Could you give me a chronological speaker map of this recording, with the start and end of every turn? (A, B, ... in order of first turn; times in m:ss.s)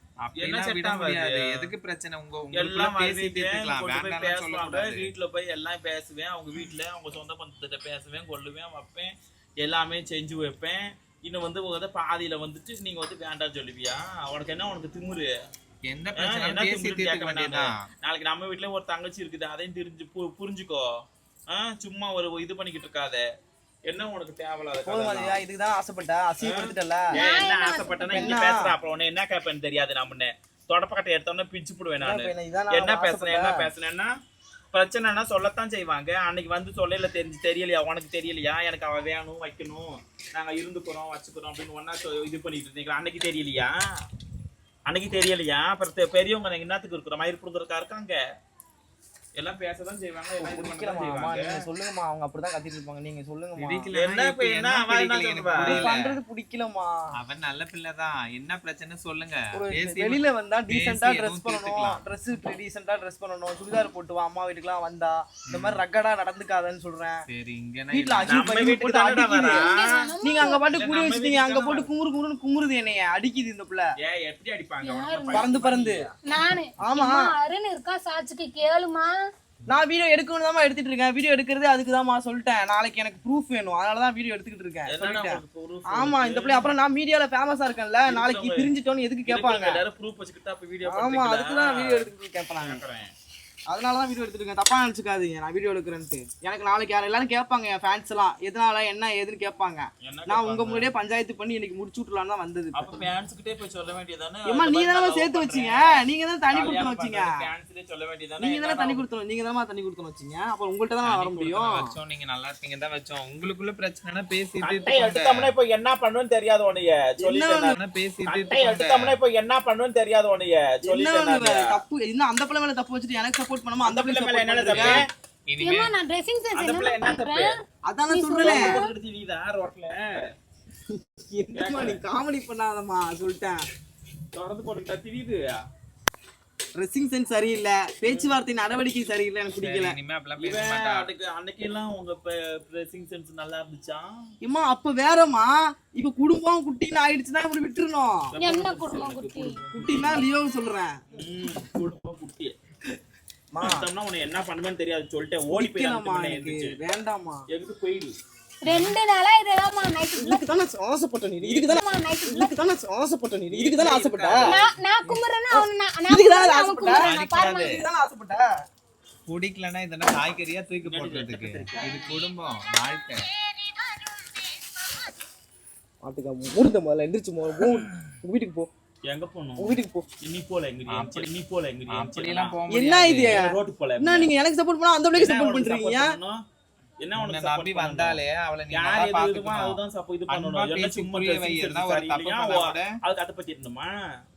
0:00.2-0:05.1 A
0:00.4-0:01.7 B
0:02.5-0:15.3 B
0:15.9-0:17.8 A
0:16.2-0:23.2 B
0:23.8-0:25.4 B
0:24.8-0:27.1 C
0:26.4-0:34.1 B
0:27.1-0:28.4 D
0:28.1-0:28.7 C
0:32.0-0:33.7 C
0:34.7-0:43.8 B
0:44.9-0:48.2 B
0:49.4-0:51.6 B
0:50.4-0:53.9 C
0:53.6-0:56.1 A
0:53.9-0:55.9 B
0:55.6-0:57.1 C
0:57.2-1:02.0 A
0:59.5-1:07.2 C
1:05.5-1:05.8 A
1:07.3-1:08.3 A
1:07.9-1:09.7 C
1:08.3-1:10.1 B
1:09.4-1:10.6 D
1:10.2-1:13.9 C
1:10.7-1:11.9 B
1:14.0-1:16.2 B
1:14.8-1:15.5 D
1:15.3-1:16.0 C
1:16.3-1:19.1 D
1:16.8-1:17.3 C
1:19.7-1:29.8 C
1:24.9-1:26.7 B
1:28.1-1:28.7 B
1:29.3-1:32.1 B
1:30.8-1:32.8 C
1:32.6-1:33.1 B
1:33.7-1:43.0 C
1:40.0-1:40.9 B
1:42.7-1:46.0 B
1:44.4-1:47.4 C
1:46.5-1:49.0 B
1:48.4-1:51.9 C
1:51.0-1:55.5 A
1:54.6-1:57.7 B
1:57.2-1:57.7 C
1:57.6-1:59.2 A
1:58.2-2:01.8 B
2:00.8-2:05.0 C
2:03.8-2:05.1 B
2:04.7-2:05.9 A
2:05.6-2:07.6 D
2:06.5-2:07.6 B
2:07.8-2:08.6 C
2:08.1-2:08.9 D
2:08.4-2:10.3 B
2:11.0-2:13.6 C
2:11.5-2:12.0 B
2:14.3-2:15.6 B
2:16.7-2:20.0 C
2:18.1-2:18.3 B
2:19.6-2:21.1 A
2:20.4-2:24.1 B
2:24.4-2:28.3 C
2:28.3-2:30.3 B
2:28.4-2:29.6 D
2:29.7-2:31.0 C
2:31.1-2:32.5 B
2:33.5-2:33.8 C
2:33.6-2:36.8 B
2:35.5-2:37.4 C
2:37.5-2:38.2 B
2:38.6-2:40.4 D
2:40.2-2:44.4 C
2:41.4-2:41.7 B
2:41.7-2:42.5 D
2:43.5-2:44.6 B
2:43.8-2:44.6 A
2:44.4-2:47.8 D
2:45.5-2:48.5 C
2:46.9-2:47.8 A
2:49.3-2:53.2 A
2:50.8-2:52.2 B
2:56.0-2:58.7 C
2:59.1-3:02.6 B
2:59.6-3:00.1 C
3:00.9-3:01.3 A
3:01.9-3:03.4 A
3:02.7-3:06.1 C
3:03.2-3:04.3 B
3:05.1-3:06.4 B
3:07.0-3:08.2 B
3:07.2-3:12.9 A
3:08.7-3:14.0 B